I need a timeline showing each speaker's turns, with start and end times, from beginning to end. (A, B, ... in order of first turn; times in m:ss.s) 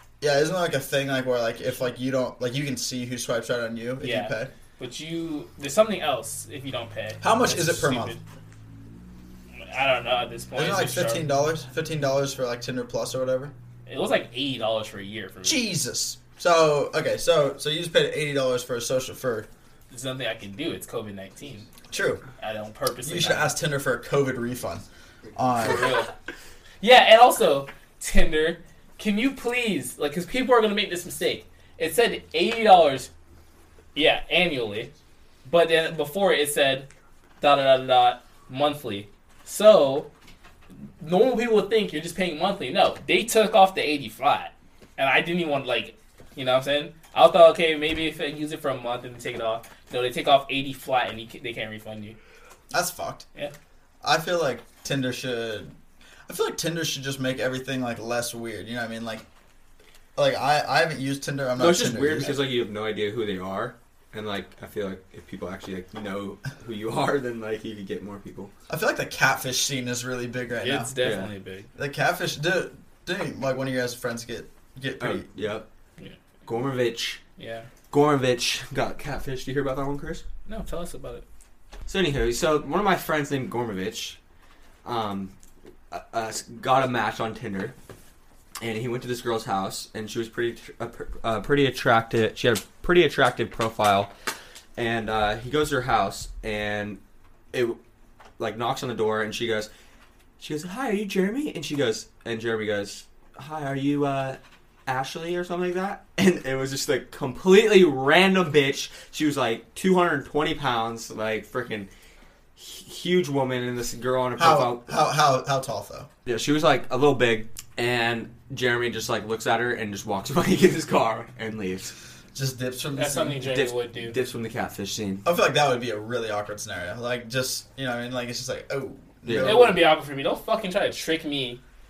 0:00.2-0:04.5 A
0:04.0-0:08.2 B
0:07.2-0:08.2 A
0:09.6-0:11.3 B
0:10.5-0:13.5 A
0:13.9-0:15.6 B
0:15.4-0:19.5 A
0:19.9-0:21.7 B
0:21.9-0:22.2 A
0:22.4-0:23.5 B
0:23.0-0:24.8 A
0:25.3-0:26.0 A
0:25.6-0:26.1 B
0:26.8-0:33.1 B
0:33.9-0:34.9 B
0:35.4-0:36.9 B
0:37.4-0:40.1 B
0:41.0-0:52.2 B
0:52.7-0:53.2 A
0:54.0-0:55.7 A
0:56.3-0:59.2 A
1:00.2-1:02.5 A
1:01.6-1:08.5 C
1:08.7-1:10.9 A
1:10.6-1:11.7 B
1:11.0-1:11.3 C
1:11.8-1:15.2 A
1:15.0-1:15.7 C
1:16.4-1:17.2 C
1:17.4-1:17.7 B
1:17.9-1:20.2 C
1:20.4-1:21.2 B
1:21.9-1:24.2 C
1:24.8-1:25.3 C
1:25.9-1:27.7 C
1:28.6-1:34.1 C
1:34.8-1:37.0 C
1:37.5-1:37.8 C
1:38.4-1:39.7 C
1:40.4-1:51.9 C
1:52.6-1:54.9 C
1:54.4-1:56.1 A
1:56.2-2:01.9 C
2:02.3-2:03.4 A
2:03.0-2:04.2 B
2:03.4-2:05.2 C
2:05.2-2:09.8 A
2:09.2-2:09.8 C
2:09.4-2:11.6 B